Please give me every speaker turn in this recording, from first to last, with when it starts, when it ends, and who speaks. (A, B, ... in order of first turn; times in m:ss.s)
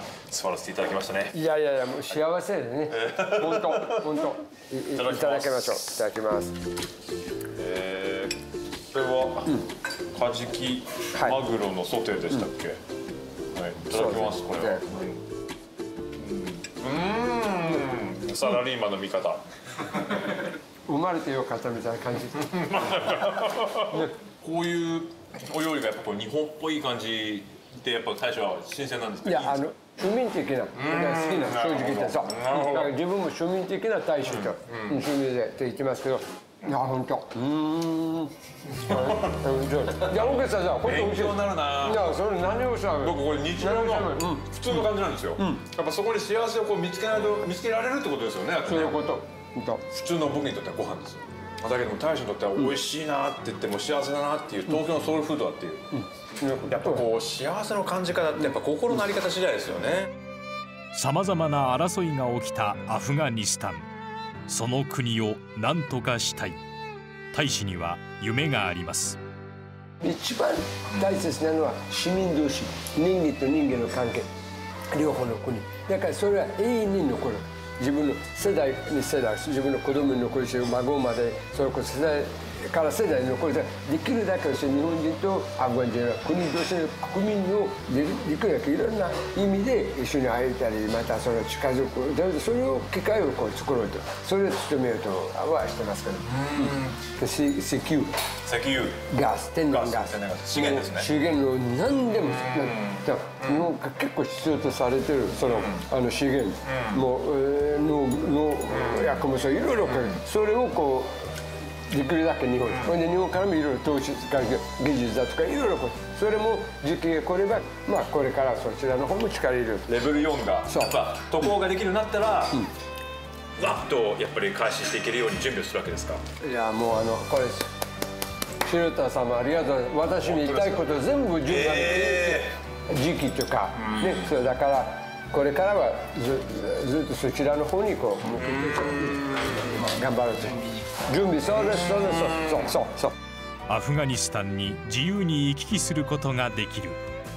0:00.3-0:01.4 A
0:01.3-0:06.5 B
0:02.9-0:04.1 A
0:05.0-0:05.9 A
0:07.6-0:08.4 A
0:08.9-0:09.6 A
0:10.1-0:12.8 A
0:13.5-0:15.2 A
0:13.9-0:14.8 B
0:16.2-0:20.4 A
0:20.9-0:22.6 B
0:22.5-0:29.7 A
0:23.8-0:24.1 B
0:29.2-0:44.8 B
0:30.8-0:32.9 A
0:34.3-0:35.0 A
0:38.8-0:42.1 A
0:43.0-0:49.0 A
0:48.7-0:49.8 B
0:49.9-0:55.9 A
0:56.4-0:57.0 B
0:56.7-1:00.1 A
1:00.9-1:03.9 C
1:04.5-1:06.6 C
1:07.3-1:09.2 C
1:10.0-1:14.3 B
1:14.9-1:38.2 B
1:36.3-1:37.0 A
1:38.4-1:39.1 A
1:39.1-1:51.3 B
1:39.7-1:41.1 A
1:42.2-1:43.7 A
1:45.5-1:45.8 A
1:46.6-1:47.0 A
1:48.8-1:49.1 A
1:49.9-1:50.2 A
1:51.9-1:59.9 B
1:59.9-2:02.6 A
2:00.7-2:00.9 B
2:03.6-2:06.2 A
2:06.4-2:07.7 B
2:08.6-2:23.2 B
2:10.2-2:10.9 A
2:11.4-2:12.5 A
2:13.8-2:14.2 A
2:18.6-2:19.8 A
2:23.7-2:27.0 C